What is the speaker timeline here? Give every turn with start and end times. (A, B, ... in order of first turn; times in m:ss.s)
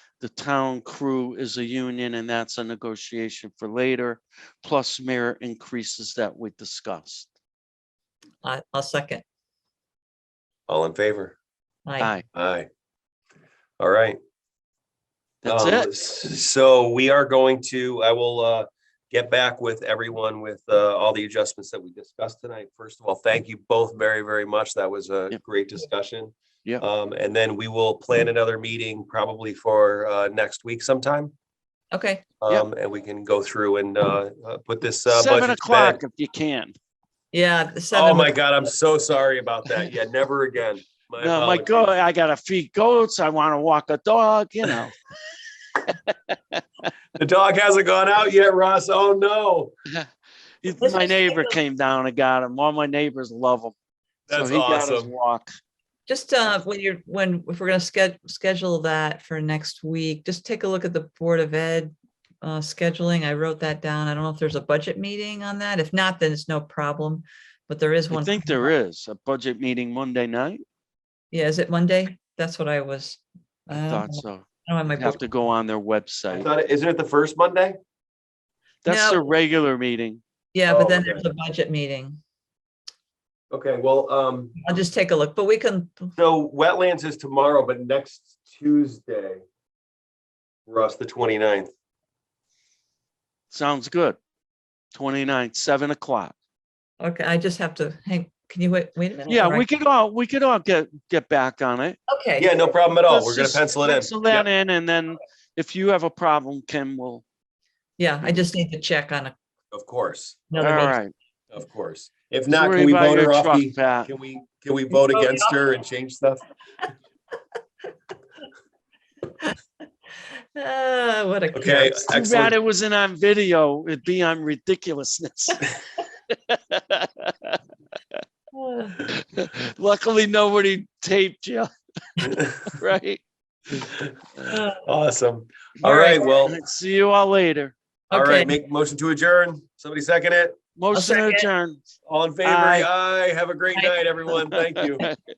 0:00.2-0:07.3 A
0:08.4-0:09.2 B
0:10.7-0:11.4 C
0:11.8-0:12.1 B
0:12.0-0:12.2 A
0:12.3-0:12.7 C
0:13.8-0:14.2 C
0:15.4-0:15.9 A
0:15.5-0:31.3 C
0:31.9-0:32.2 B
0:32.4-0:36.0 C
0:35.1-0:36.8 A
0:37.3-0:38.3 B
0:37.9-0:41.9 C
0:41.2-0:45.0 A
0:45.9-0:46.6 A
0:47.2-0:49.7 C
0:50.6-0:53.7 A
0:50.8-0:51.6 B
0:54.3-0:55.1 C
0:54.3-0:55.6 A
0:56.1-1:08.7 B
1:08.1-1:10.6 A
1:11.3-1:15.2 B
1:13.7-1:16.5 A
1:16.3-1:17.8 C
1:18.8-1:20.2 A
1:18.9-1:19.2 B
1:20.5-1:22.2 B
1:20.7-1:21.2 C
1:23.5-1:24.6 C
1:24.6-1:26.1 B
1:26.2-1:29.4 C
1:30.7-1:31.7 C
1:33.5-1:34.2 A
1:34.9-1:36.3 A
1:37.0-1:39.7 B
1:39.3-1:42.0 A
1:42.1-1:42.5 B
1:42.4-1:44.5 C
1:43.1-1:47.2 A
1:48.0-1:49.3 B
1:49.7-1:50.5 C
1:50.5-1:51.0 B
1:50.6-1:51.1 A
1:51.5-1:56.4 C
1:52.5-1:54.1 A
1:55.0-1:55.5 B
2:00.6-2:02.0 B
2:01.5-2:02.6 C
2:02.1-2:05.7 A
2:06.3-2:07.6 A
2:08.5-2:09.0 B
2:09.0-2:13.2 A
2:14.5-2:14.8 B
2:14.8-2:16.6 C
2:15.8-2:17.7 A
2:15.8-2:16.2 B
2:18.1-2:18.6 B
2:18.1-2:20.6 C
2:20.8-2:21.9 A
2:20.9-2:21.5 B
2:22.1-2:25.1 C
2:22.4-2:22.9 A
2:24.4-2:25.2 A